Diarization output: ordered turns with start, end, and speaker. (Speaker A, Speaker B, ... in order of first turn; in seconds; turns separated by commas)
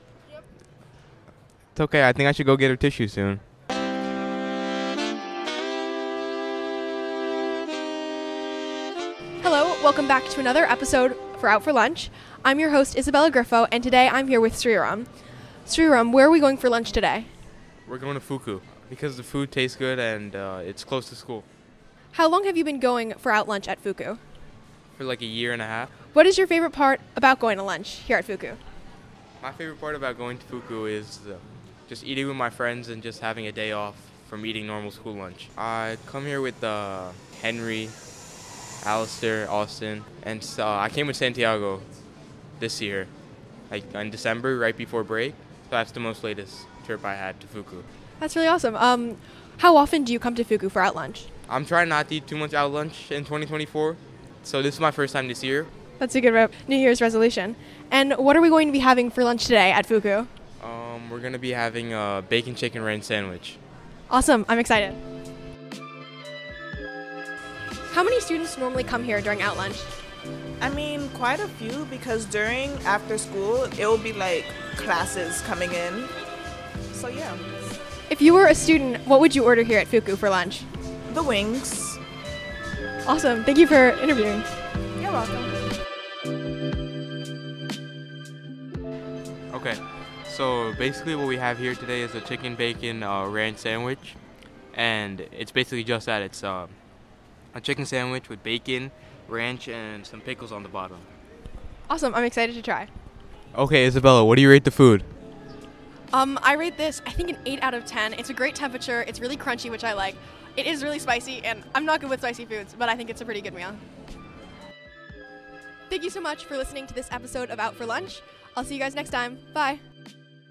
Speaker A: 1.7-3.4, Speaker B: 9.4-15.1, Speaker B: 15.7-17.3, Speaker A: 17.9-21.4, Speaker B: 22.1-24.2, Speaker A: 24.9-25.9, Speaker B: 26.1-28.6, Speaker A: 29.4-38.0, Speaker A: 38.8-41.8, Speaker A: 42.6-43.1, Speaker A: 43.7-47.9, Speaker B: 48.2-51.3, Speaker A: 51.5-55.7, Speaker B: 56.0-60.3, Speaker A: 60.6-63.6, Speaker B: 64.1-65.0, Speaker B: 67.9-69.9, Speaker C: 70.6-76.1, Speaker C: 76.9-77.4, Speaker B: 78.1-80.7, Speaker C: 81.1-82.0, Speaker B: 83.0-84.5, Speaker C: 85.0-85.5, Speaker A: 89.5-94.2, Speaker A: 94.7-96.7, Speaker A: 97.5-101.1, Speaker B: 101.9-102.9, Speaker A: 103.5-105.1, Speaker B: 106.1-113.8, Speaker B: 115.9-119.8